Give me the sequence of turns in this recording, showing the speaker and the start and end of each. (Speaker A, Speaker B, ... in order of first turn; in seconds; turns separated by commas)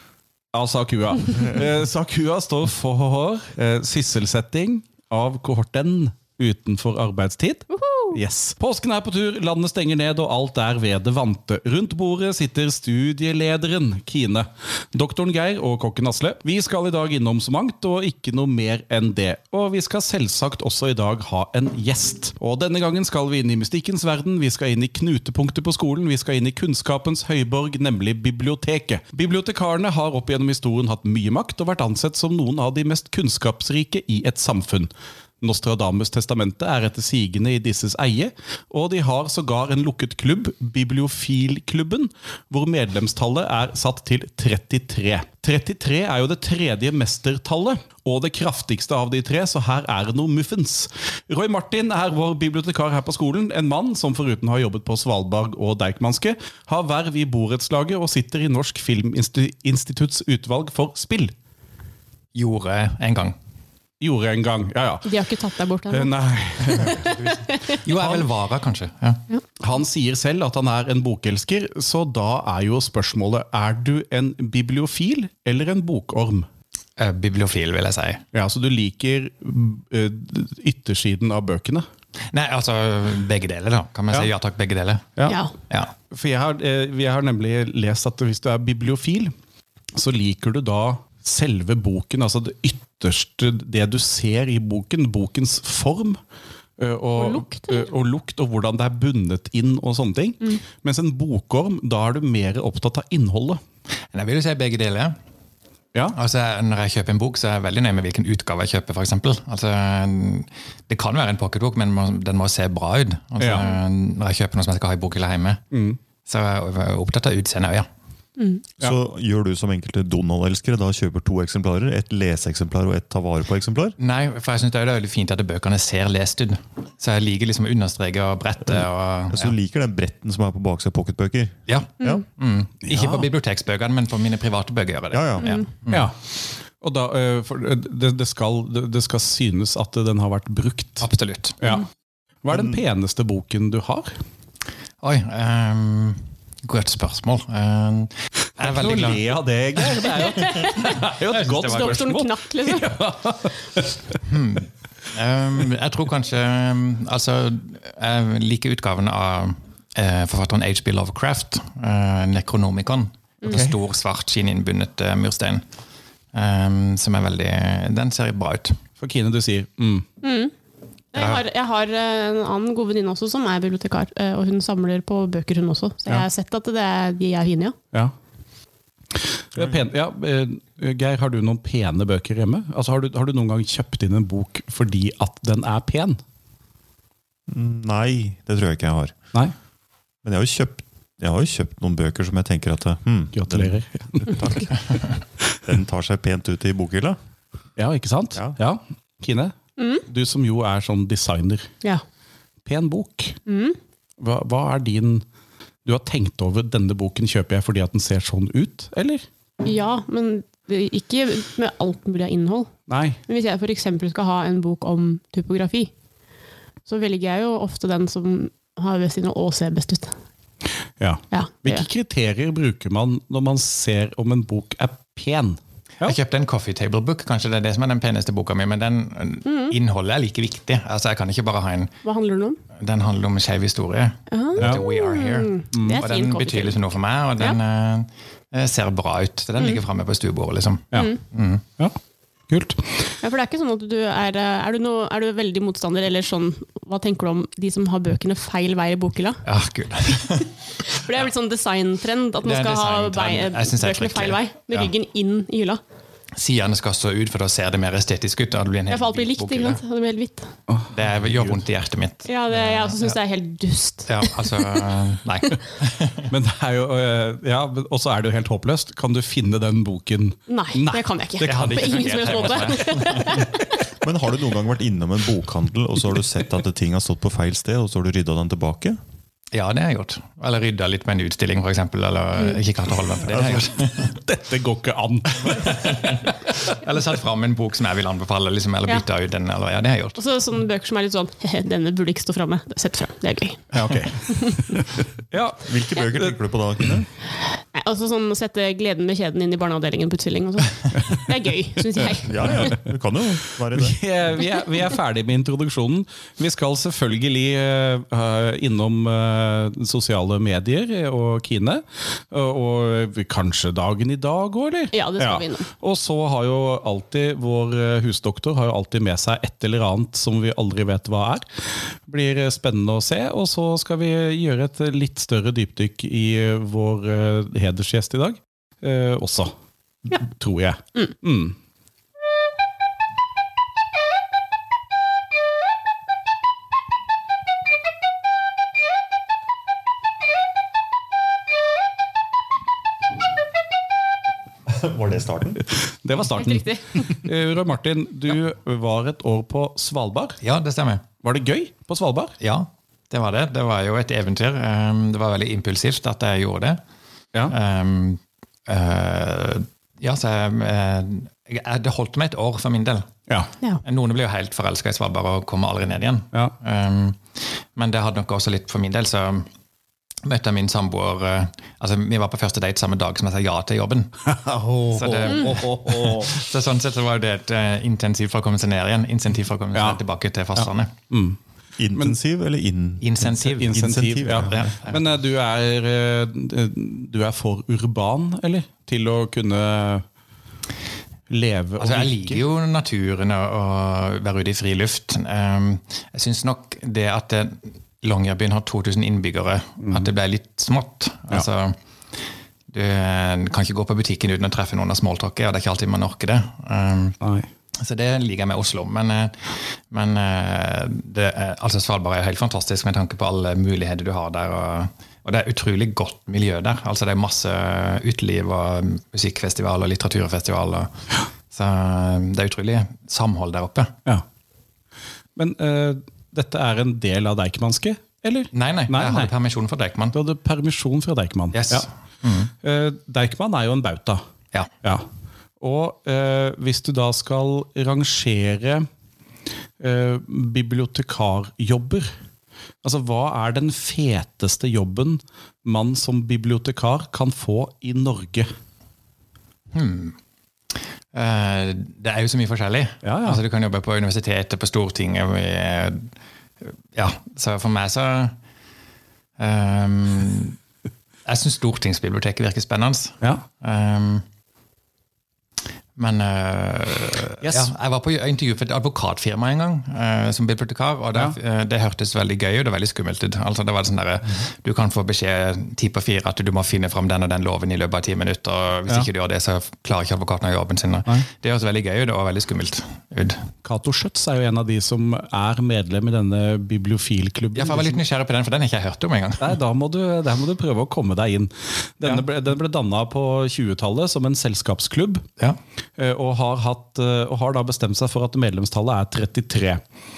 Speaker A: 0.5-34.9, Speaker B: 7.7-8.2, Speaker A: 35.4-61.3, Speaker C: 62.3-63.4, Speaker A: 64.0-65.2, Speaker B: 65.0-66.1, Speaker A: 65.9-67.1, Speaker B: 66.7-67.6, Speaker C: 66.7-69.2, Speaker A: 67.9-68.2, Speaker A: 69.6-76.5, Speaker C: 77.0-78.2, Speaker A: 78.3-81.8, Speaker C: 82.3-85.0, Speaker B: 85.2-85.5, Speaker C: 85.7-85.9, Speaker A: 86.1-89.3, Speaker A: 89.9-96.2, Speaker A: 96.8-103.6, Speaker B: 97.2-97.9, Speaker C: 104.1-105.2, Speaker C: 106.1-115.6, Speaker A: 113.4-113.7, Speaker A: 115.7-116.0, Speaker C: 116.2-117.9, Speaker B: 118.4-118.6, Speaker D: 118.8-124.0, Speaker C: 124.0-129.5, Speaker D: 129.3-132.2, Speaker C: 131.7-136.1, Speaker A: 132.8-133.3, Speaker D: 135.1-135.5, Speaker A: 135.9-136.1, Speaker A: 136.8-141.1, Speaker C: 141.0-141.6, Speaker A: 141.6-141.8, Speaker A: 142.4-144.1, Speaker D: 142.5-142.8, Speaker C: 145.0-149.2, Speaker A: 148.6-154.0, Speaker B: 150.4-152.9, Speaker C: 151.3-152.0, Speaker C: 154.2-165.6, Speaker A: 163.5-163.8, Speaker C: 166.3-168.8, Speaker A: 169.0-170.0, Speaker B: 170.2-170.5, Speaker B: 171.1-177.8, Speaker C: 171.1-171.4, Speaker A: 179.1-186.2, Speaker D: 179.6-179.8, Speaker D: 187.5-189.2, Speaker D: 190.2-195.1, Speaker A: 193.3-194.5, Speaker D: 195.6-197.2, Speaker A: 197.8-201.7, Speaker B: 199.8-200.0, Speaker A: 202.7-203.4, Speaker B: 203.5-203.8, Speaker A: 204.2-205.2, Speaker A: 205.8-209.2, Speaker B: 209.6-212.7, Speaker A: 212.9-213.2, Speaker B: 213.3-215.9, Speaker B: 216.8-220.1, Speaker A: 221.0-226.2, Speaker B: 221.3-221.8, Speaker C: 226.0-232.0, Speaker B: 229.4-229.8, Speaker B: 232.0-232.6, Speaker C: 232.7-241.6, Speaker B: 234.3-236.9, Speaker A: 235.7-236.0, Speaker B: 240.9-241.2, Speaker A: 242.5-242.9, Speaker B: 243.2-249.4, Speaker C: 249.4-251.1, Speaker B: 250.9-255.8, Speaker C: 252.4-254.9, Speaker C: 256.4-259.8, Speaker B: 258.9-260.5, Speaker A: 260.7-261.6, Speaker C: 260.9-263.2, Speaker B: 262.2-264.4, Speaker C: 264.1-266.3, Speaker A: 266.3-273.5, Speaker B: 270.5-273.6, Speaker C: 271.4-273.4, Speaker D: 273.9-279.0, Speaker C: 279.5-284.2, Speaker A: 283.3-286.1, Speaker C: 285.4-290.2, Speaker B: 290.1-293.7, Speaker A: 293.7-296.4, Speaker B: 294.3-294.6, Speaker D: 295.6-297.1, Speaker B: 297.6-302.7, Speaker A: 300.9-301.2, Speaker A: 301.9-302.8, Speaker D: 302.2-304.0, Speaker A: 303.6-321.4, Speaker B: 314.9-315.7, Speaker A: 322.1-329.5, Speaker A: 330.1-331.6, Speaker D: 344.7-345.6, Speaker A: 345.6-350.4, Speaker B: 346.3-347.1, Speaker C: 350.4-351.0, Speaker A: 351.2-352.3, Speaker C: 352.4-356.8, Speaker C: 357.5-363.2, Speaker C: 363.8-369.5, Speaker C: 370.2-374.1, Speaker A: 374.2-376.4, Speaker C: 374.9-380.9, Speaker A: 379.7-380.0, Speaker A: 380.6-381.4, Speaker D: 381.8-384.7, Speaker C: 383.0-383.8, Speaker A: 383.2-390.0, Speaker C: 384.3-385.0, Speaker A: 391.3-392.4, Speaker C: 391.8-401.8, Speaker A: 399.8-400.1, Speaker C: 402.7-407.2, Speaker A: 407.2-407.5, Speaker C: 407.8-420.9, Speaker C: 421.5-423.9, Speaker A: 425.4-429.3, Speaker C: 428.5-430.1, Speaker A: 430.1-431.9, Speaker C: 431.5-432.5, Speaker A: 432.6-434.2, Speaker A: 435.6-438.9, Speaker A: 439.8-442.1, Speaker A: 442.8-448.5, Speaker C: 449.7-450.1, Speaker C: 451.1-456.1, Speaker A: 453.0-453.4, Speaker C: 456.9-458.4, Speaker C: 459.4-460.6, Speaker C: 461.2-464.2, Speaker C: 465.9-483.4, Speaker A: 467.4-467.7, Speaker A: 483.6-488.0, Speaker C: 487.5-489.5, Speaker A: 489.4-495.2, Speaker A: 496.0-499.8